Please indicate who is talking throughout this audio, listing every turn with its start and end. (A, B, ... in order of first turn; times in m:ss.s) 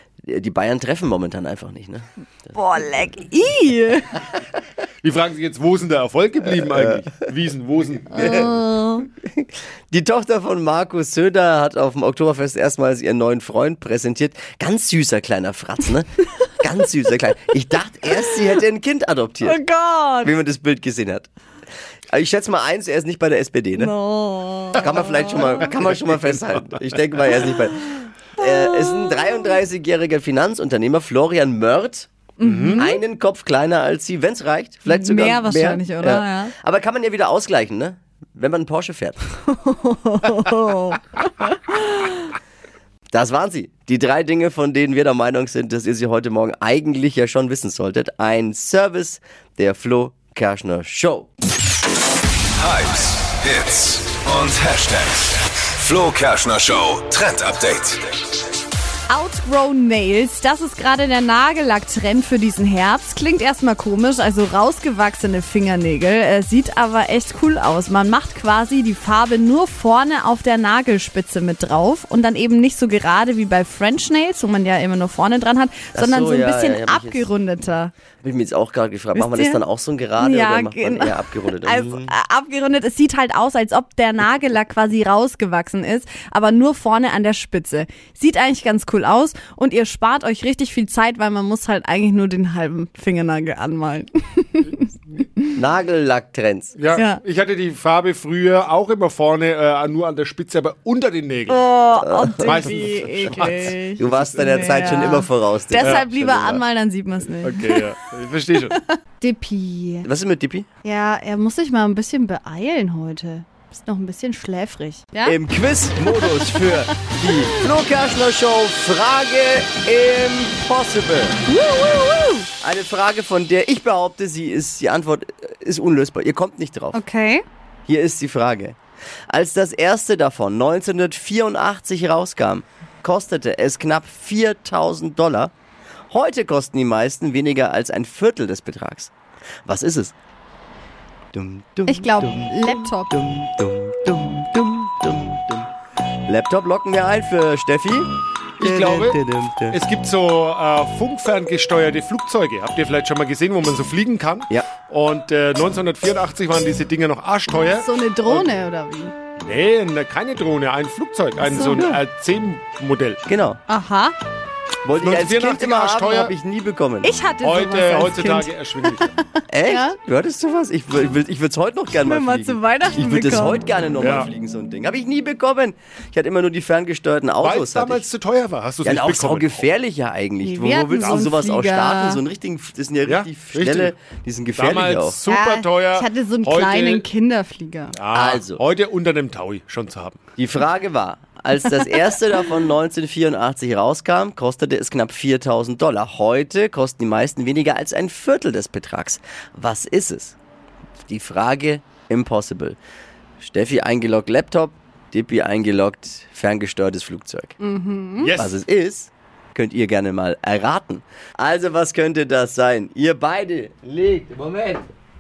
0:00.2-0:02.0 A
0:02.5-0:04.2 B
0:05.0-0:08.3 C
0:06.4-0:07.1 A
0:08.1-0:08.5 A
0:08.1-0:09.1 B
0:09.2-0:16.1 A
0:16.6-0:19.6 A
0:18.1-0:18.4 B
0:19.4-0:20.3 B
0:20.2-0:21.3 A
0:22.1-0:23.9 A
0:23.7-0:25.7 B
0:24.8-0:27.8 A
0:28.4-0:32.1 A
0:28.4-0:29.6 B
0:32.4-0:33.0 B
0:32.4-0:32.8 C
0:32.8-0:39.2 A
0:34.9-0:36.5 B
0:39.5-0:42.1 B
0:43.1-0:51.3 A
0:52.6-0:58.1 D
0:59.1-1:17.9 B
1:15.9-1:17.3 A
1:18.2-1:22.1 A
1:19.1-1:19.6 B
1:20.2-1:35.5 B
1:35.5-1:36.7 A
1:36.8-1:41.6 C
1:36.9-1:37.2 B
1:41.5-1:47.9 B
1:42.0-1:46.6 A
1:42.4-1:44.5 C
1:45.8-1:46.0 C
1:47.4-1:48.7 C
1:48.6-1:50.1 B
1:50.0-1:50.7 A
1:50.8-1:55.4 B
1:55.2-2:01.4 A
1:56.0-1:57.6 B
2:01.5-2:02.5 B
2:02.6-2:07.0 A
2:06.9-2:07.4 B
2:07.9-2:08.8 A
2:09.3-2:15.5 A
2:16.1-2:19.1 A
2:19.6-2:20.1 A
2:21.3-2:25.7 A
2:21.9-2:23.2 B
2:26.3-2:29.8 A
2:28.6-2:29.2 C
2:29.7-2:38.5 C
2:37.7-2:39.1 B
2:39.4-2:43.2 C
2:41.4-2:41.8 B
2:41.5-2:42.0 A
2:43.2-2:43.6 A
2:43.7-2:44.2 B
2:44.8-2:47.1 A
2:45.0-2:46.3 C
2:47.0-2:50.0 B
2:47.4-2:49.0 C
2:49.5-2:58.0 A
2:52.0-2:53.7 B
2:54.0-2:54.3 C
2:57.4-2:59.7 C
2:58.8-3:05.2 A
3:00.4-3:02.2 B
3:01.0-3:01.3 C
3:03.0-3:03.9 C
3:04.6-3:07.0 C
3:05.3-3:07.9 B
3:07.9-3:10.2 C
3:08.1-3:08.6 A
3:10.4-3:20.4 A
3:21.1-3:22.8 A
3:23.4-3:27.6 A
3:27.6-3:28.3 B
3:28.2-3:28.6 C
3:28.3-3:34.9 A